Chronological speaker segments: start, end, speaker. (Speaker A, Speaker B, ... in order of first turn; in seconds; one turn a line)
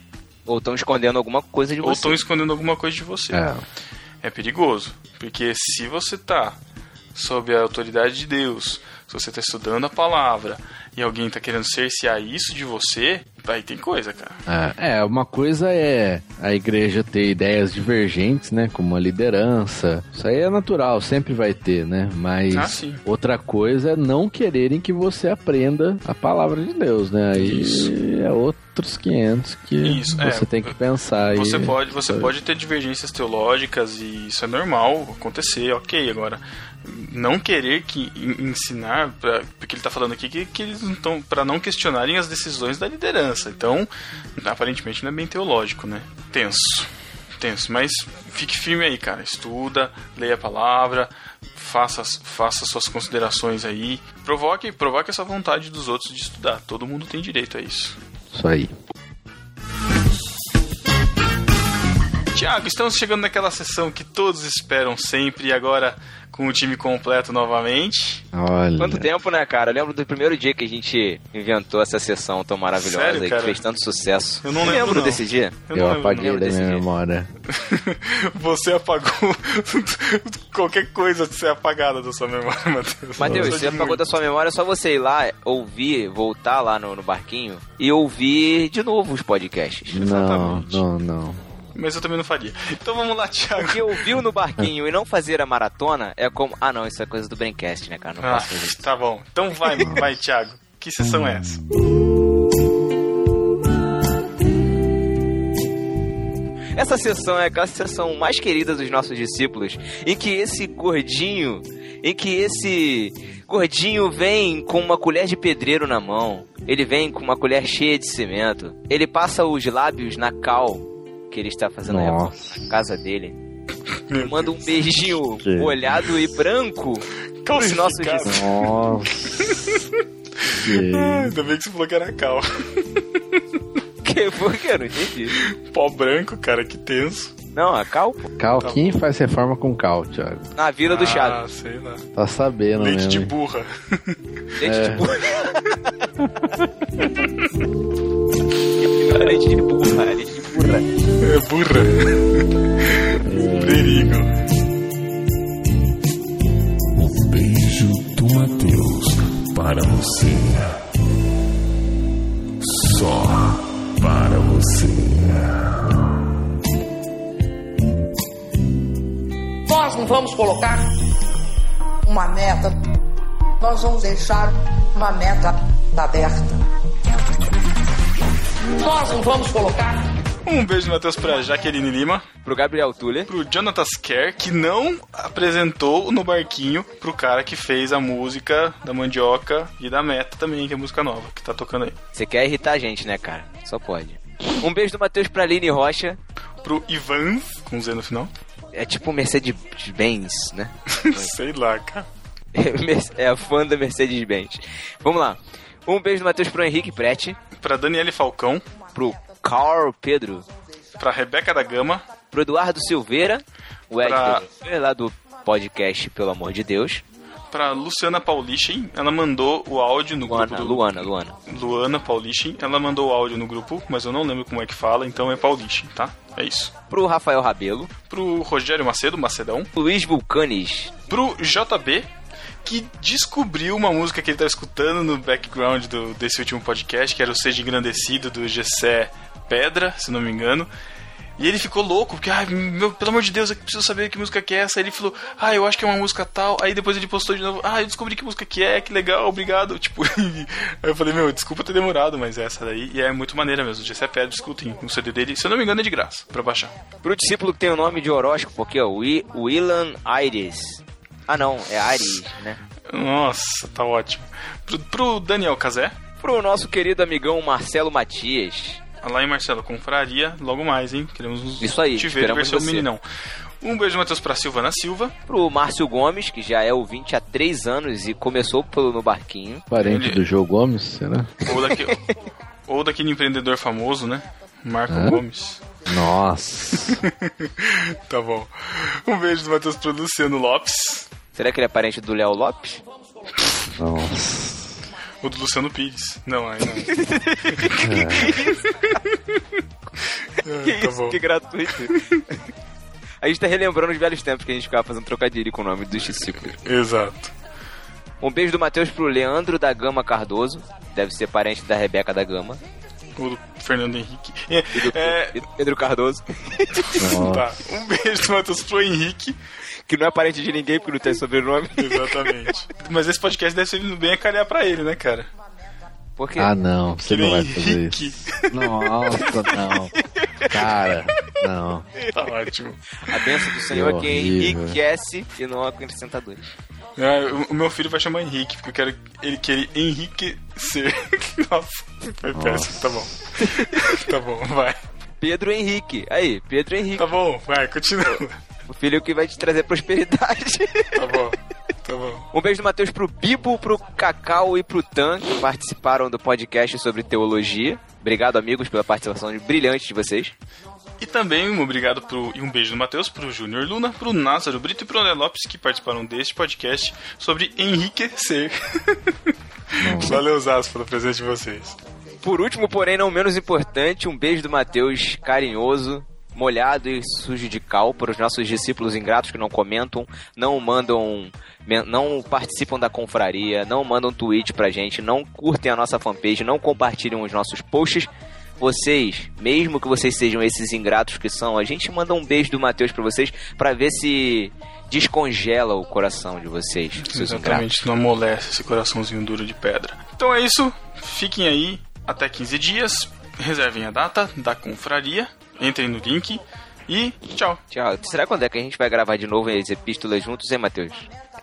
Speaker A: 0.5-2.2
Speaker B: 1.8-3.4
Speaker C: 3.3-3.6
Speaker B: 4.2-6.6
Speaker B: 7.1-14.4
Speaker C: 14.5-32.3
Speaker B: 22.5-23.0
Speaker B: 27.3-27.9
Speaker B: 29.8-58.0
Speaker C: 58.3-58.7
Speaker B: 62.3-68.2
Speaker C: 68.3-69.1
Speaker A: 68.8-76.8
Speaker B: 72.7-73.6
Speaker B: 74.4-76.6
Speaker C: 75.7-77.3
Speaker B: 77.5-84.0
Speaker A: 83.2-90.0
Speaker C: 83.2-83.5
Speaker C: 89.9-91.4
Speaker B: 90.0-90.8
Speaker B: 91.7-94.0
Speaker A: 93.5-98.8
Speaker B: 98.2-101.6
Speaker A: 106.7-123.4
Speaker C: 121.9-122.5
Speaker B: 124.1-125.2
Speaker A: 124.2-128.4
Speaker C: 125.4-125.8
Speaker B: 127.4-128.7
Speaker C: 128.3-129.6
Speaker B: 129.4-129.8
Speaker B: 130.4-133.0
Speaker C: 130.5-131.3
Speaker A: 134.0-135.3
Speaker B: 135.3-137.3
Speaker A: 137.5-138.2
Speaker C: 138.4-140.5
Speaker B: 138.6-139.0
Speaker A: 140.6-141.4
Speaker B: 140.8-142.0
Speaker C: 142.1-143.3
Speaker B: 142.8-144.2
Speaker A: 144.6-145.5
Speaker C: 144.6-145.0
Speaker A: 148.8-150.9
Speaker B: 151.2-154.3
Speaker C: 153.2-154.2
Speaker D: 156.9-160.8
Speaker D: 162.6-165.9
Speaker E: 169.6-170.9
Speaker E: 172.0-172.8
Speaker E: 173.6-176.6
Speaker E: 178.6-180.0
Speaker B: 180.4-182.2
Speaker A: 182.4-183.3
Speaker B: 183.3-192.0
Speaker A: 192.1-196.2
Speaker B: 196.6-198.3
Speaker A: 198.7-201.3
Speaker B: 200.9-202.1
Speaker A: 202.5-207.4
Speaker B: 207.6-208.7
Speaker A: 208.9-210.4
Speaker B: 211.0-212.0
Speaker A: 212.3-217.0
Speaker B: 214.0-214.4
Speaker B: 217.5-226.7
Speaker A: 220.2-221.3
Speaker A: 226.9-227.9
Speaker B: 228.1-229.7
Speaker A: 229.7-230.9
Speaker B: 231.1-232.1
Speaker B: 232.6-240.7
Speaker B: 241.4-256.7
Speaker A: 257.0-262.6
Speaker B: 262.9-265.9
Speaker A: 266.2-268.8
Speaker B: 269.0-273.0
Speaker A: 271.6-272.9
Speaker B: 273.6-275.1
Speaker A: 275.3-279.6
Speaker C: 279.7-281.3
Speaker B: 279.8-280.2
Speaker B: 281.4-282.0
Speaker A: 281.5-282.1
Speaker B: 282.7-285.6
Speaker C: 284.9-285.2
Speaker C: 285.9-287.0
Speaker B: 286.9-291.1
Speaker A: 291.3-292.8
Speaker C: 293.7-294.7
Speaker B: 295.2-299.0
Speaker A: 296.7-298.7
Speaker C: 297.8-298.4
Speaker B: 300.4-302.0
Speaker A: 300.6-302.0
Speaker A: 303.2-306.5
Speaker B: 306.1-307.3
Speaker A: 308.2-312.6
Speaker B: 313.1-315.5
Speaker A: 314.7-317.1
Speaker B: 316.8-319.4
Speaker C: 317.0-317.6
Speaker A: 319.9-322.3
Speaker B: 321.8-325.3
Speaker A: 326.2-326.5
Speaker C: 326.4-329.9
Speaker B: 327.1-328.6
Speaker A: 330.2-330.5
Speaker C: 330.5-331.9
Speaker B: 332.1-333.5
Speaker A: 333.1-336.4
Speaker C: 333.7-334.8
Speaker B: 337.0-344.8
Speaker C: 342.3-343.1
Speaker A: 343.5-343.8
Speaker A: 345.2-347.1
Speaker B: 346.9-348.4
Speaker A: 348.1-351.2
Speaker B: 350.9-352.3
Speaker A: 352.3-360.3
Speaker B: 361.0-369.2
Speaker B: 369.8-371.8
Speaker C: 369.8-370.2
Speaker A: 372.2-397.6
Speaker B: 397.0-407.6
Speaker A: 407.7-411.1